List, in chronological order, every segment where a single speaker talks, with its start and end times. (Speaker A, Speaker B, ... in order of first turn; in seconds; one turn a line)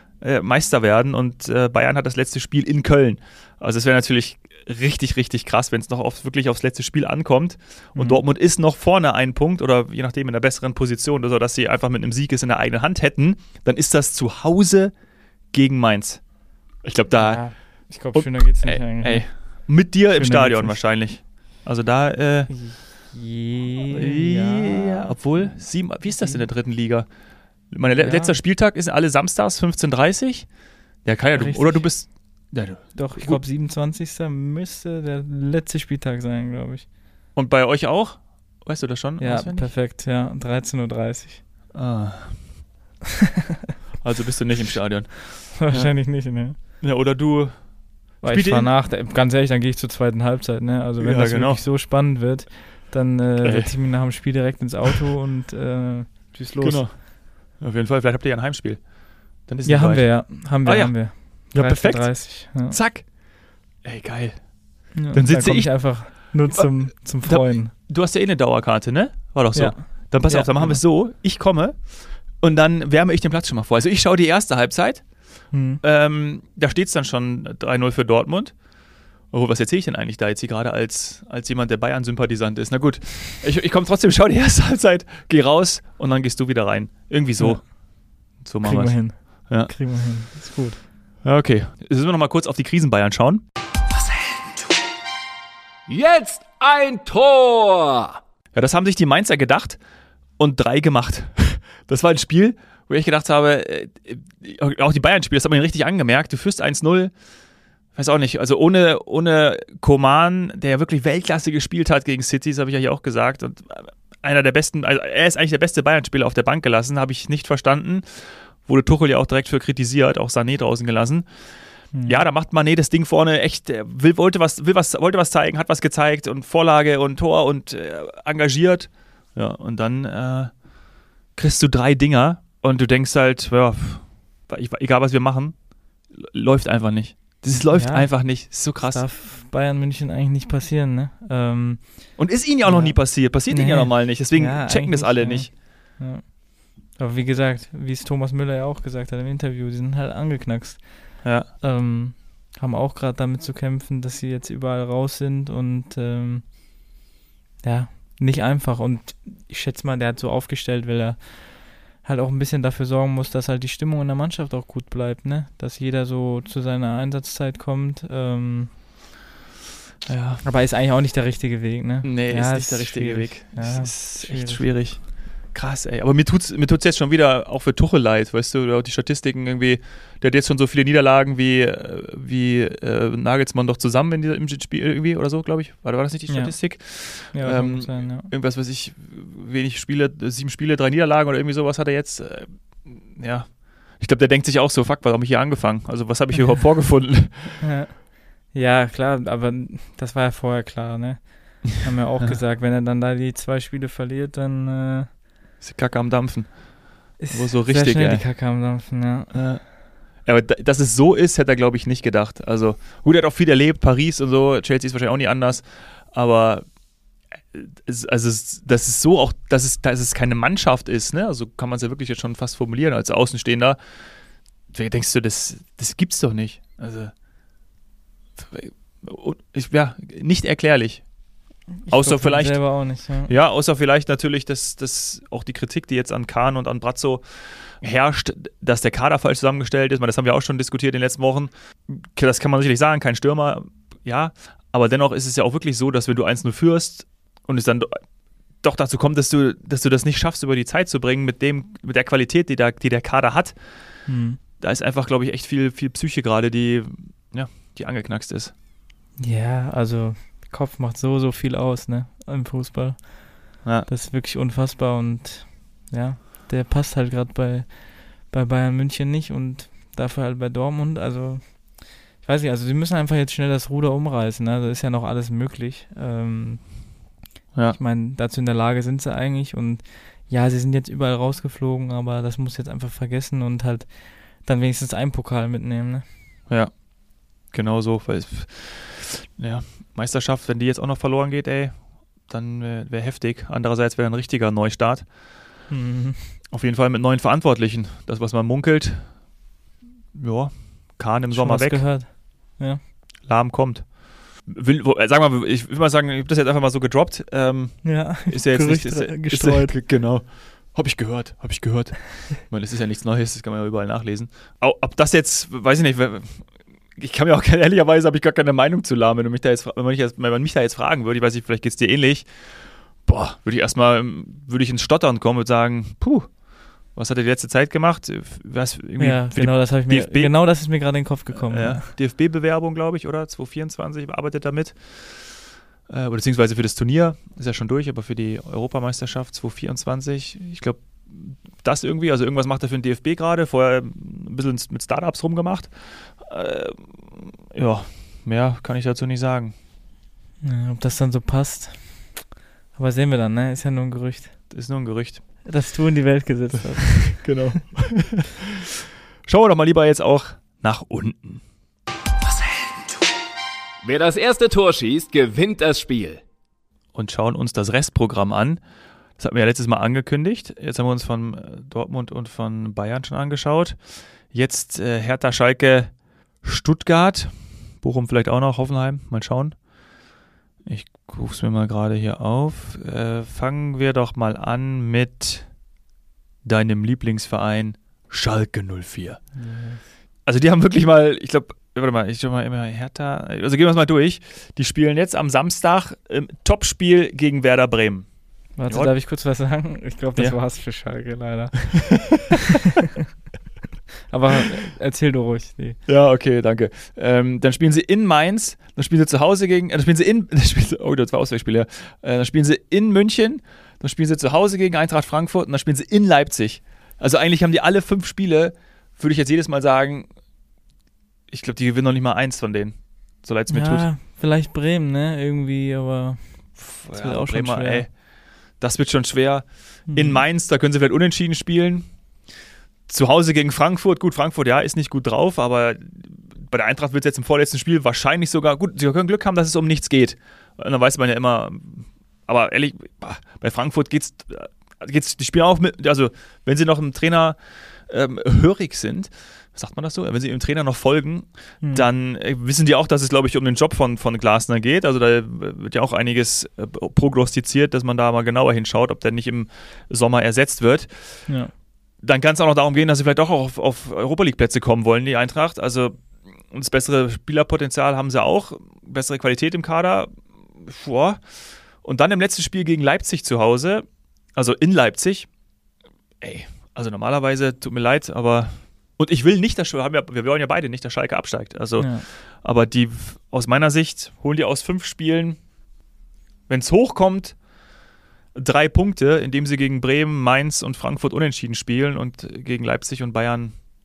Speaker A: 0.2-14.9
Speaker B: 8.0-8.2
Speaker A: 15.5-23.1
Speaker B: 17.1-20.8
Speaker B: 22.5-25.1
Speaker A: 23.9-27.1
Speaker B: 26.1-26.5
Speaker A: 27.7-33.4
Speaker B: 28.0-28.4
Speaker B: 31.4-36.9
Speaker A: 37.4-39.7
Speaker B: 39.2-41.4
Speaker A: 41.7-42.5
Speaker A: 44.0-48.7
Speaker B: 45.5-46.6
Speaker B: 48.2-56.9
Speaker A: 51.0-51.6
Speaker A: 53.4-54.0
Speaker A: 56.6-63.2
Speaker B: 59.6-62.8
Speaker A: 63.8-78.6
Speaker B: 65.0-67.7
Speaker B: 69.5-70.8
Speaker B: 75.5-75.8
Speaker A: 79.3-89.7
Speaker B: 87.4-87.8
Speaker B: 88.6-90.8
Speaker A: 91.2-93.4
Speaker C: 95.9-98.2
Speaker A: 98.5-99.8
Speaker A: 100.4-107.1
Speaker A: 107.9-130.7
Speaker B: 121.9-122.2
Speaker A: 131.3-139.1
Speaker B: 137.5-156.5
Speaker A: 142.2-145.5
Speaker A: 151.2-151.5
Speaker B: 157.6-168.8
Speaker A: 170.1-170.4
Speaker B: 170.4-174.7
Speaker A: 172.0-197.7
Speaker B: 186.3-188.3
Speaker B: 197.6-205.1
Speaker A: 205.6-208.4
Speaker B: 207.2-209.5
Speaker A: 209.3-216.8
Speaker A: 217.4-223.8
Speaker A: 224.7-227.1
Speaker A: 228.4-231.2
Speaker B: 231.8-233.3
Speaker A: 231.9-248.1
Speaker A: 248.6-258.5
Speaker B: 254.1-254.4
Speaker B: 259.2-276.8
Speaker A: 263.6-263.9
Speaker A: 277.5-277.8
Speaker B: 277.7-286.1
Speaker A: 286.5-295.5
Speaker B: 295.7-296.4
Speaker A: 296.5-299.2
Speaker A: 300.1-301.9
Speaker B: 301.3-302.8
Speaker A: 303.3-330.4
Speaker B: 307.8-309.8
Speaker B: 329.0-331.9
Speaker A: 331.3-349.5
Speaker B: 350.4-354.5
Speaker A: 354.5-355.4
Speaker B: 355.4-357.6
Speaker A: 357.1-358.4
Speaker A: 359.2-361.4
Speaker C: 363.8-366.2
Speaker A: 366.9-368.6
Speaker A: 369.2-379.6
Speaker A: 380.6-385.6
Speaker A: 386.4-389.2
Speaker B: 389.4-389.8
Speaker A: 390.2-399.0
Speaker B: 398.6-402.3
Speaker A: 400.2-400.4
Speaker B: 404.1-405.8
Speaker A: 405.9-420.1
Speaker A: 421.3-423.9
Speaker B: 423.5-427.9
Speaker A: 426.6-432.1
Speaker B: 429.9-430.2
Speaker A: 432.9-461.4
Speaker B: 451.6-451.9
Speaker B: 461.3-461.5
Speaker A: 462.0-475.3
Speaker A: 476.2-485.4
Speaker B: 481.8-482.1
Speaker A: 486.5-487.5
Speaker A: 488.3-493.6